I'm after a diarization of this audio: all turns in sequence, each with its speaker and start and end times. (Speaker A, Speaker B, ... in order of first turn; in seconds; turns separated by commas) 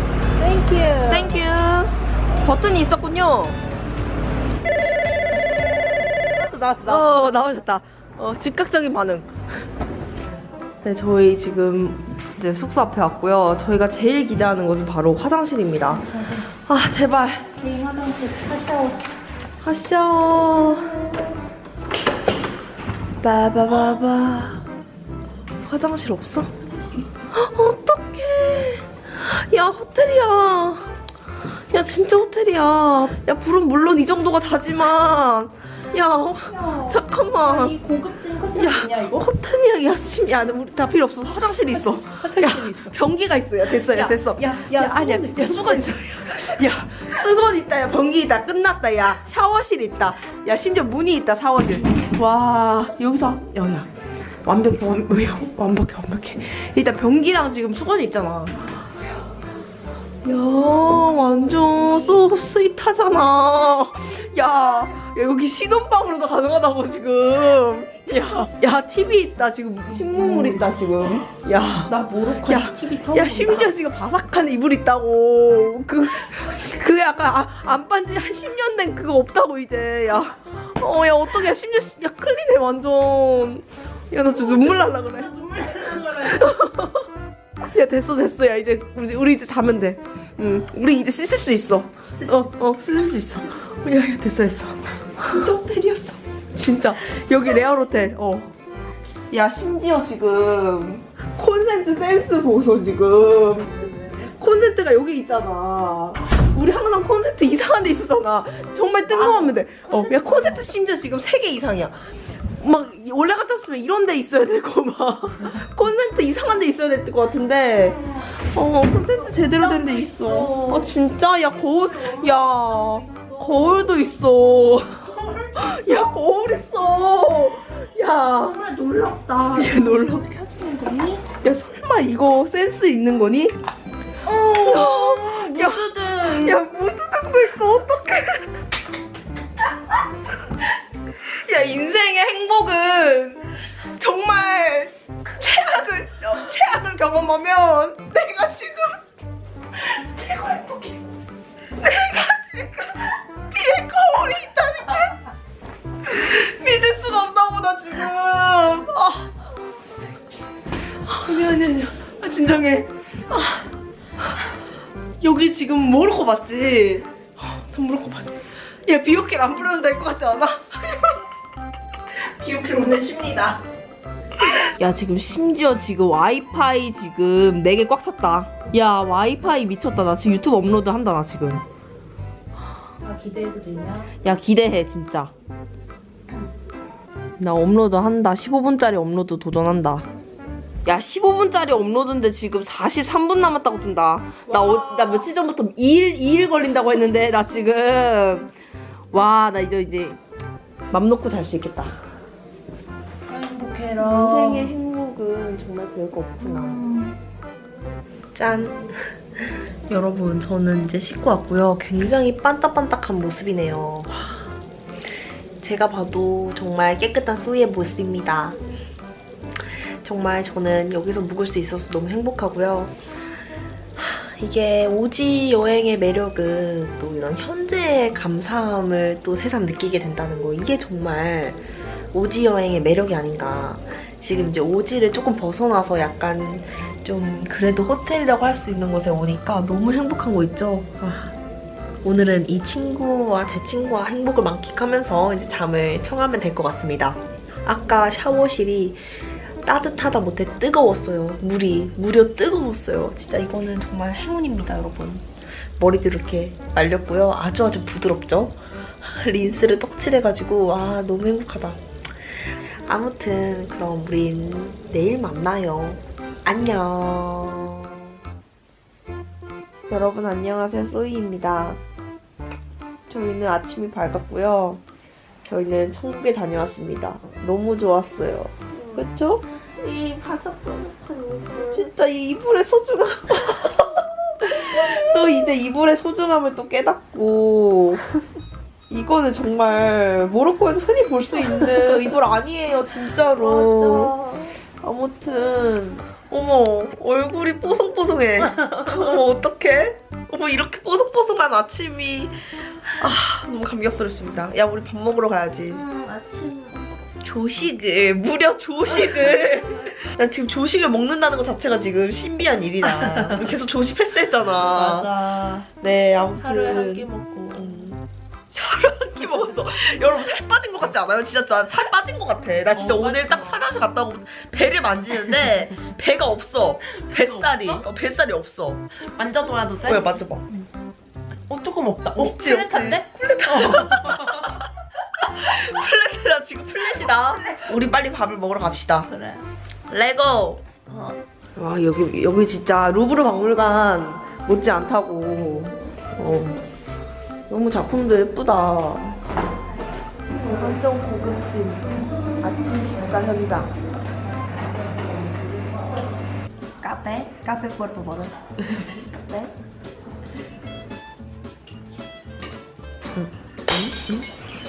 Speaker A: 0.4-1.4, Speaker B: 1.1-3.6, Speaker A: 6.4-7.0, Speaker B: 6.8-9.3, Speaker B: 10.8-17.5, Speaker A: 15.9-16.5, Speaker A: 17.6-19.0, Speaker B: 19.6-21.1, Speaker A: 20.6-21.1, Speaker B: 23.2-24.6, Speaker B: 25.7-26.5, Speaker A: 26.8-27.1, Speaker B: 27.3-30.9, Speaker B: 31.7-37.7, Speaker A: 36.5-39.2, Speaker B: 38.5-53.9, Speaker A: 41.7-43.0, Speaker A: 43.8-46.4, Speaker B: 54.5-58.6, Speaker B: 60.2-87.1, Speaker A: 70.2-70.7, Speaker A: 71.9-73.7, Speaker A: 84.2-86.5, Speaker B: 87.6-98.5, Speaker B: 99.3-112.0, Speaker A: 109.2-109.5, Speaker B: 112.6-128.7, Speaker A: 119.4-120.9, Speaker A: 122.0-123.7, Speaker A: 125.2-125.9, Speaker A: 128.5-131.2, Speaker B: 129.5-130.3, Speaker B: 131.3-133.6, Speaker A: 134.2-136.6, Speaker B: 134.4-138.5, Speaker B: 141.2-149.0, Speaker A: 149.9-150.9, Speaker B: 151.8-155.2, Speaker B: 156.1-159.3, Speaker B: 161.1-163.6, Speaker B: 165.2-168.3, Speaker B: 168.9-171.1, Speaker A: 172.4-173.6, Speaker B: 172.7-173.4, Speaker B: 174.8-181.6, Speaker A: 183.0-184.1, Speaker B: 184.2-185.3, Speaker B: 187.4-190.1, Speaker B: 190.8-198.5, Speaker A: 194.5-195.3, Speaker B: 199.1-200.2, Speaker B: 200.9-202.0, Speaker A: 203.3-204.7, Speaker B: 204.0-206.8, Speaker A: 206.4-207.2, Speaker B: 208.3-214.5, Speaker B: 215.6-218.6, Speaker B: 219.7-222.9, Speaker B: 224.0-241.3, Speaker B: 242.0-255.3, Speaker B: 255.8-268.1, Speaker B: 269.9-271.8, Speaker B: 273.1-274.8, Speaker B: 275.4-279.4, Speaker A: 279.8-281.8, Speaker B: 281.7-288.1, Speaker B: 288.9-305.8, Speaker A: 293.5-294.1, Speaker A: 305.7-306.8, Speaker B: 307.2-318.0, Speaker A: 314.6-315.6, Speaker A: 316.4-317.8, Speaker B: 318.5-328.9, Speaker A: 322.7-323.6, Speaker A: 327.1-327.8, Speaker A: 329.1-330.7, Speaker B: 329.8-330.4, Speaker A: 331.5-334.5, Speaker B: 332.2-334.6, Speaker B: 335.2-339.1, Speaker A: 336.8-337.8, Speaker A: 339.1-339.4, Speaker B: 339.9-340.6, Speaker A: 340.9-341.1, Speaker B: 341.6-346.6, Speaker B: 347.5-349.2, Speaker B: 350.3-353.8, Speaker B: 356.8-359.5, Speaker B: 363.2-364.2